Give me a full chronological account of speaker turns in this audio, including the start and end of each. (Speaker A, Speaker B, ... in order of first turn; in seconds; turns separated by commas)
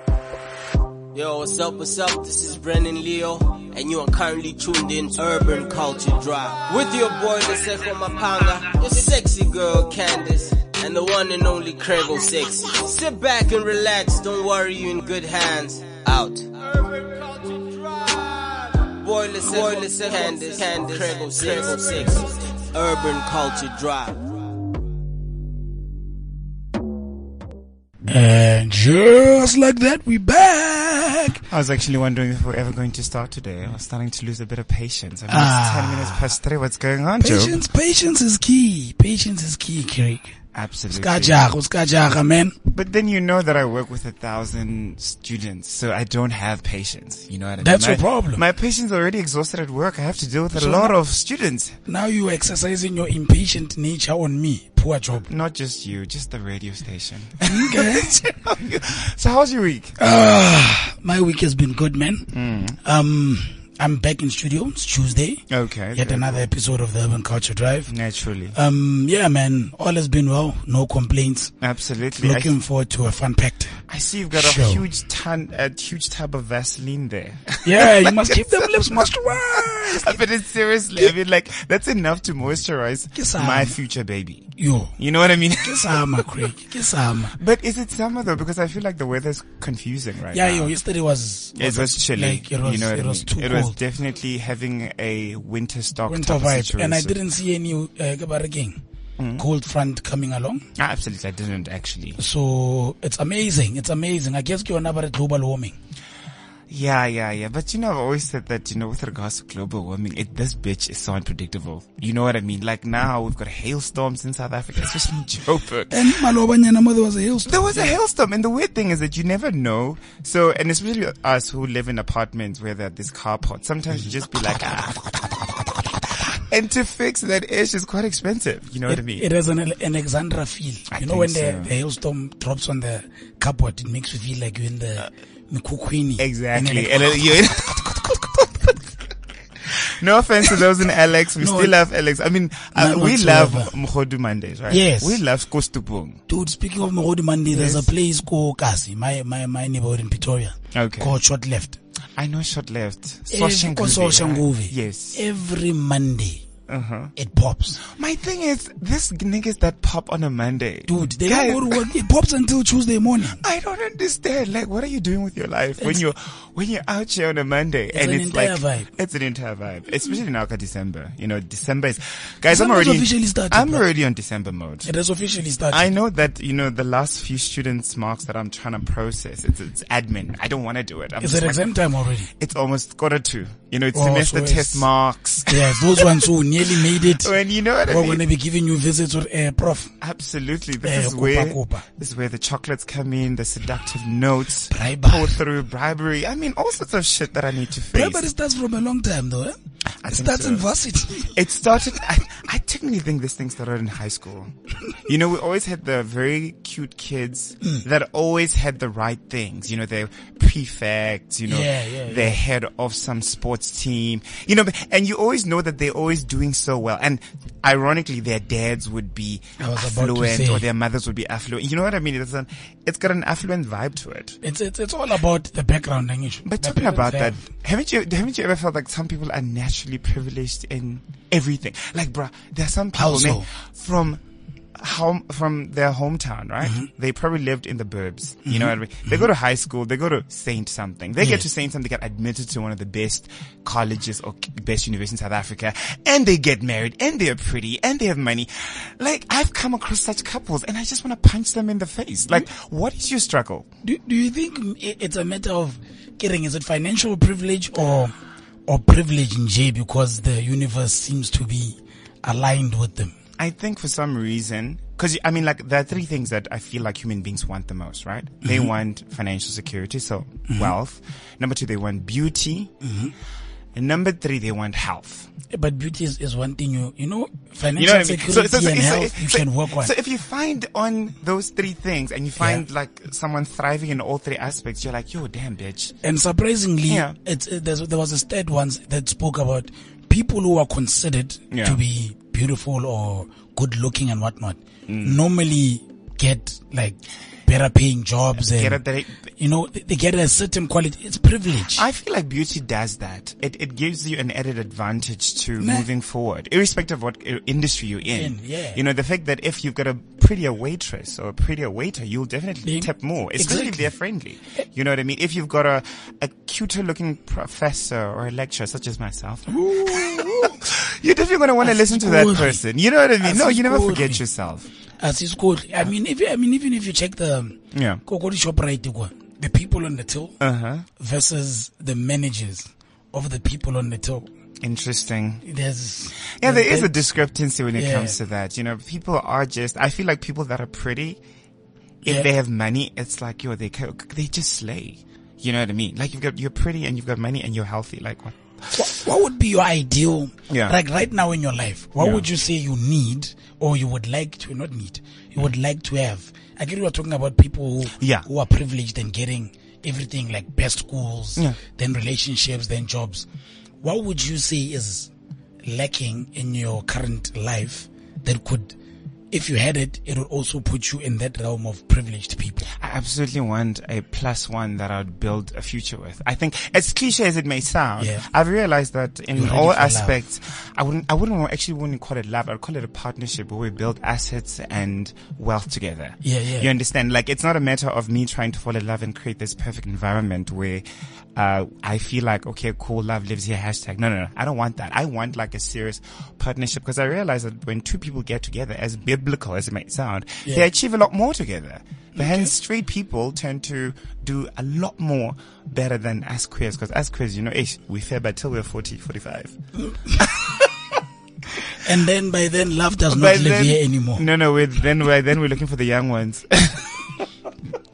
Speaker A: 1.1-24.4, Speaker B: 28.1-31.4, Speaker C: 31.5-37.6, Speaker B: 35.3-36.4, Speaker B: 37.2-40.4, Speaker C: 40.5-41.4, Speaker B: 40.9-42.6, Speaker C: 42.7-51.8, Speaker B: 47.6-48.4, Speaker B: 50.5-51.0, Speaker B: 51.9-55.3, Speaker C: 55.3-60.0, Speaker B: 57.5-58.2, Speaker B: 60.0-67.9, Speaker C: 62.3-62.8, Speaker C: 65.5-66.5, Speaker C: 67.9-68.6, Speaker B: 68.5-71.5, Speaker C: 71.6-72.5, Speaker B: 72.2-74.8, Speaker C: 73.9-86.5, Speaker B: 77.6-80.2, Speaker B: 83.2-83.8, Speaker B: 84.6-85.0, Speaker B: 85.6-87.4, Speaker C: 87.4-90.7, Speaker B: 90.3-93.8, Speaker C: 91.5-97.2, Speaker B: 96.1-98.8, Speaker C: 99.2-99.5, Speaker B: 99.4-100.6, Speaker C: 100.8-102.2, Speaker B: 102.2-105.8, Speaker C: 106.7-116.1, Speaker B: 115.9-118.0, Speaker C: 117.5-125.5, Speaker C: 126.3-129.3, Speaker B: 128.9-138.0, Speaker C: 130.9-131.7, Speaker C: 136.2-138.8, Speaker C: 139.7-146.2, Speaker B: 141.4-141.8, Speaker B: 142.8-143.7, Speaker B: 144.7-145.2, Speaker B: 146.3-151.8, Speaker C: 147.5-147.9, Speaker C: 150.8-151.1, Speaker C: 152.2-155.3, Speaker B: 153.3-156.4, Speaker C: 156.7-157.1, Speaker B: 157.2-157.8, Speaker C: 157.8-161.9, Speaker B: 160.9-163.4, Speaker C: 163.4-174.9, Speaker B: 167.9-168.9, Speaker B: 172.5-173.8, Speaker B: 174.8-175.9, Speaker C: 175.7-181.7, Speaker B: 181.2-182.3, Speaker C: 182.4-186.2, Speaker B: 183.9-184.9, Speaker B: 185.5-187.3, Speaker C: 186.8-188.2, Speaker B: 187.9-189.9, Speaker C: 190.0-198.2, Speaker B: 190.8-191.9, Speaker B: 194.7-195.4, Speaker B: 197.9-201.3, Speaker C: 200.0-200.7, Speaker C: 201.2-224.4, Speaker B: 211.5-212.4, Speaker B: 219.6-220.7, Speaker B: 224.4-227.4, Speaker C: 226.5-234.2, Speaker B: 232.9-233.5, Speaker C: 234.8-253.7, Speaker B: 236.6-236.9, Speaker B: 238.5-239.2, Speaker B: 241.2-241.5, Speaker B: 253.8-258.1, Speaker B: 258.7-263.1, Speaker C: 263.4-272.7, Speaker B: 268.4-268.7, Speaker B: 272.8-273.1, Speaker C: 273.8-275.3, Speaker B: 275.5-279.9, Speaker C: 277.8-285.9, Speaker B: 282.4-282.6, Speaker B: 286.0-298.8, Speaker C: 286.9-287.2, Speaker C: 291.5-291.8, Speaker C: 294.9-295.2, Speaker C: 298.4-299.2, Speaker B: 299.4-301.9, Speaker C: 301.8-324.7, Speaker B: 305.6-305.9, Speaker B: 308.1-308.8, Speaker B: 312.6-313.9, Speaker B: 319.5-320.6, Speaker B: 321.6-322.6, Speaker B: 323.2-324.2, Speaker B: 325.0-330.4, Speaker C: 327.7-328.0, Speaker C: 330.4-330.9, Speaker B: 331.0-334.3, Speaker C: 334.6-335.4, Speaker B: 335.4-336.9, Speaker C: 336.4-341.2, Speaker B: 337.8-338.2, Speaker C: 342.0-348.9, Speaker B: 348.7-363.3, Speaker C: 350.5-350.8, Speaker C: 352.0-352.3, Speaker C: 358.0-358.3, Speaker B: 363.8-365.1, Speaker B: 365.6-368.8, Speaker B: 369.3-372.7, Speaker C: 372.8-409.6, Speaker B: 378.0-378.2, Speaker B: 379.4-380.2, Speaker B: 386.2-386.7, Speaker B: 402.2-402.5, Speaker B: 409.8-410.4, Speaker C: 410.2-410.7, Speaker B: 411.8-414.3, Speaker C: 413.1-417.0